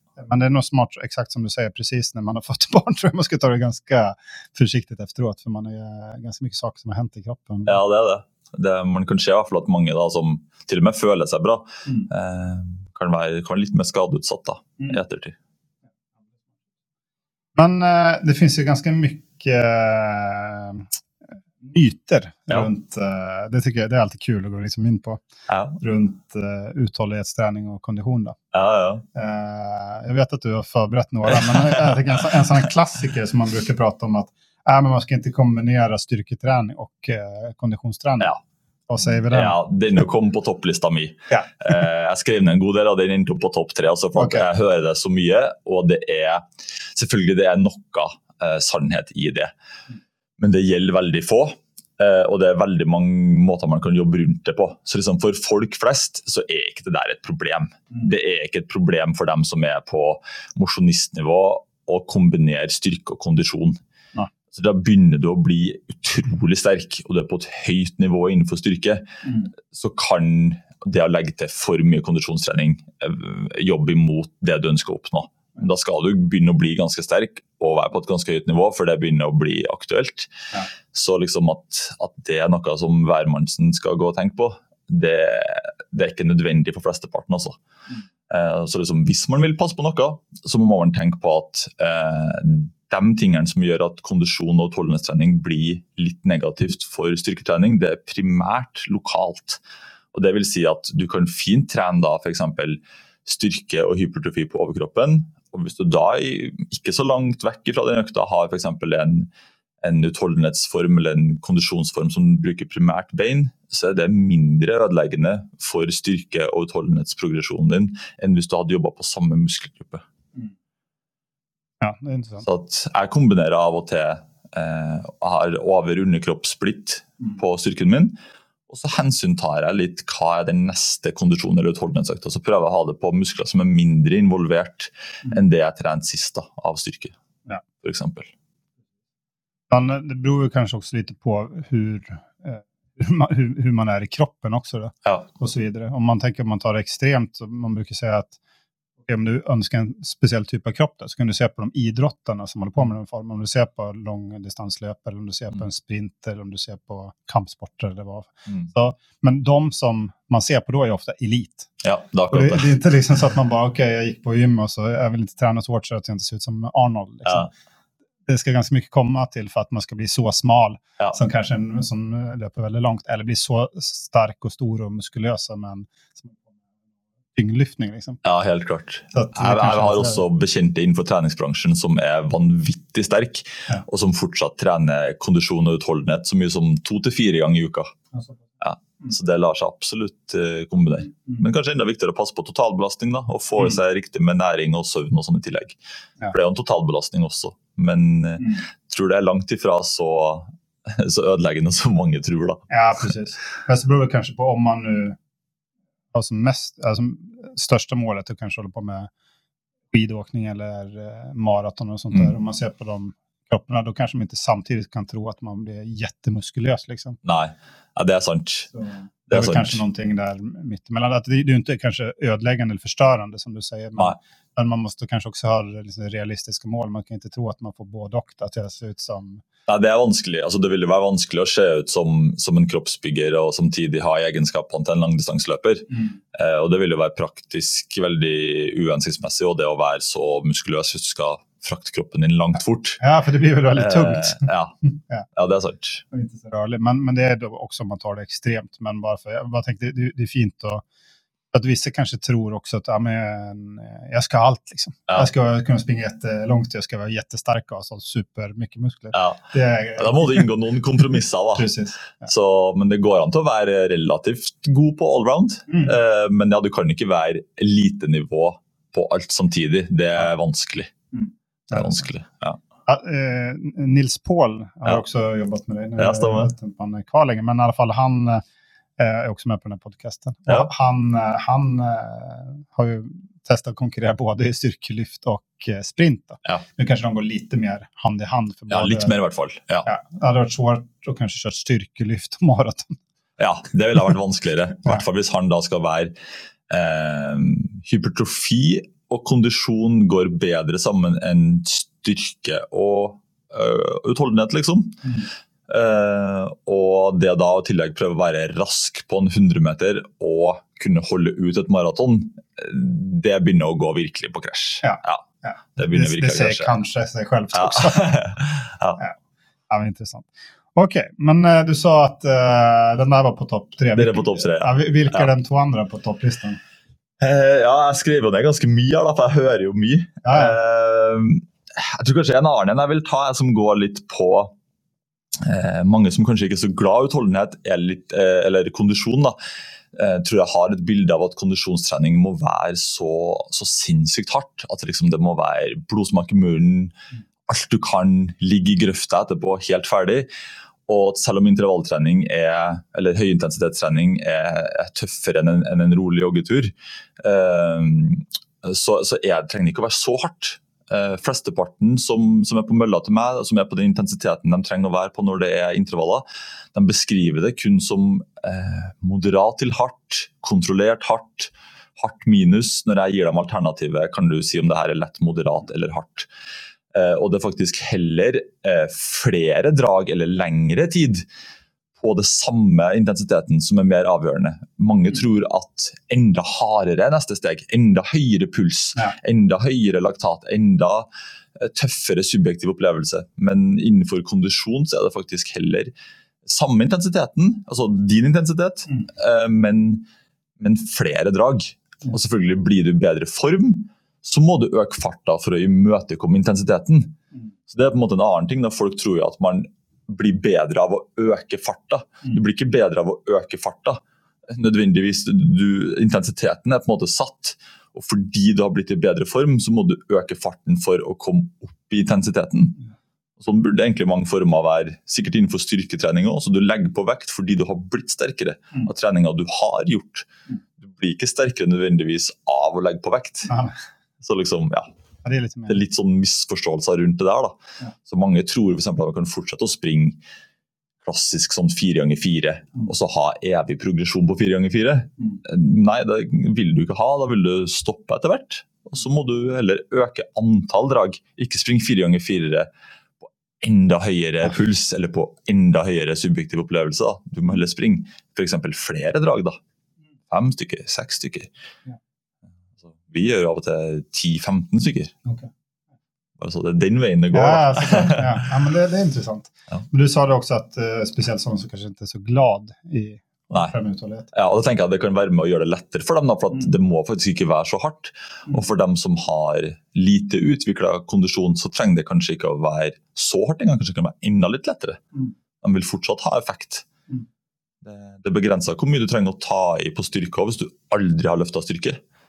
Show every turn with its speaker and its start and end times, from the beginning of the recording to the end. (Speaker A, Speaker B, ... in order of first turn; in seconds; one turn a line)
Speaker A: 0.2-7.8
Speaker B: 7.7-15.4
Speaker A: 17.6-20.9
Speaker A: 21.6-25.2
Speaker B: 25.5-25.8
Speaker A: 25.8-28.4
Speaker B: 28.5-29.0
Speaker A: 29.1-38.3
Speaker A: 38.9-39.6
Speaker B: 39.3-49.5
Speaker A: 44.2-44.4
Speaker B: 50.4-63.8
Speaker B: 64.5-80.3
Speaker A: 69.2-69.5
Speaker B: 80.9-87.6
Speaker B: 88.3-99.6
Speaker B: 100.1-109.3
Speaker B: 109.8-120.0
Speaker A: 121.8-122.5
Speaker B: 122.4-137.2
Speaker B: 137.8-138.3
Speaker A: 139.7-148.4
Speaker A: 149.1-161.7
Speaker B: 161.8-162.8
Speaker A: 162.3-167.5
Speaker A: 168.3-176.4
Speaker A: 177.3-178.2
Speaker B: 178.2-187.9
Speaker A: 179.1-180.2
Speaker B: 188.6-195.8
Speaker B: 196.3-202.7
Speaker A: 202.7-205.2
Speaker A: 206.1-209.1
Speaker A: 209.9-217.2
Speaker B: 217.2-218.7
Speaker A: 218.8-229.4
Speaker B: 219.3-219.8
Speaker B: 229.7-243.0
Speaker A: 243.0-245.3
Speaker B: 243.8-244.7
Speaker B: 245.3-246.0
Speaker A: 246.1-250.8
Speaker A: 251.5-260.5
Speaker B: 259.1-259.4
Speaker B: 260.0-270.9
Speaker A: 261.6-262.3
Speaker A: 265.7-265.9
Speaker A: 271.1-272.0
Speaker B: 271.7-272.6
Speaker A: 272.9-278.4
Speaker B: 276.0-276.5
Speaker A: 279.0-289.1
Speaker B: 288.7-289.9
Speaker A: 289.9-293.0
Speaker B: 293.4-296.1
Speaker B: 296.7-305.1
Speaker B: 305.7-315.3
Speaker A: 314.8-318.2
Speaker B: 315.8-316.8
Speaker B: 317.5-319.0
Speaker A: 319.7-326.6
Speaker B: 323.9-325.3
Speaker B: 327.2-334.5
Speaker A: 330.2-330.6
Speaker B: 335.4-339.4
Speaker B: 339.9-346.9
Speaker B: 347.5-350.3
Speaker B: 350.9-376.3
Speaker B: 376.9-381.3
Speaker B: 382.0-395.9
Speaker B: 396.4-400.1
Speaker B: 400.6-407.2
Speaker B: 407.7-422.8
Speaker B: 423.4-433.5
Speaker A: 433.5-433.7
Speaker B: 434.2-434.9
Speaker A: 435.2-435.8
Speaker B: 435.7-440.2
Speaker B: 441.0-452.7
Speaker B: 453.2-459.6
Speaker B: 460.3-461.5
Speaker B: 462.9-465.1
Speaker B: 466.4-468.4
Speaker A: 467.3-474.3
Speaker B: 474.3-485.0
Speaker B: 485.6-486.9
Speaker B: 487.8-492.0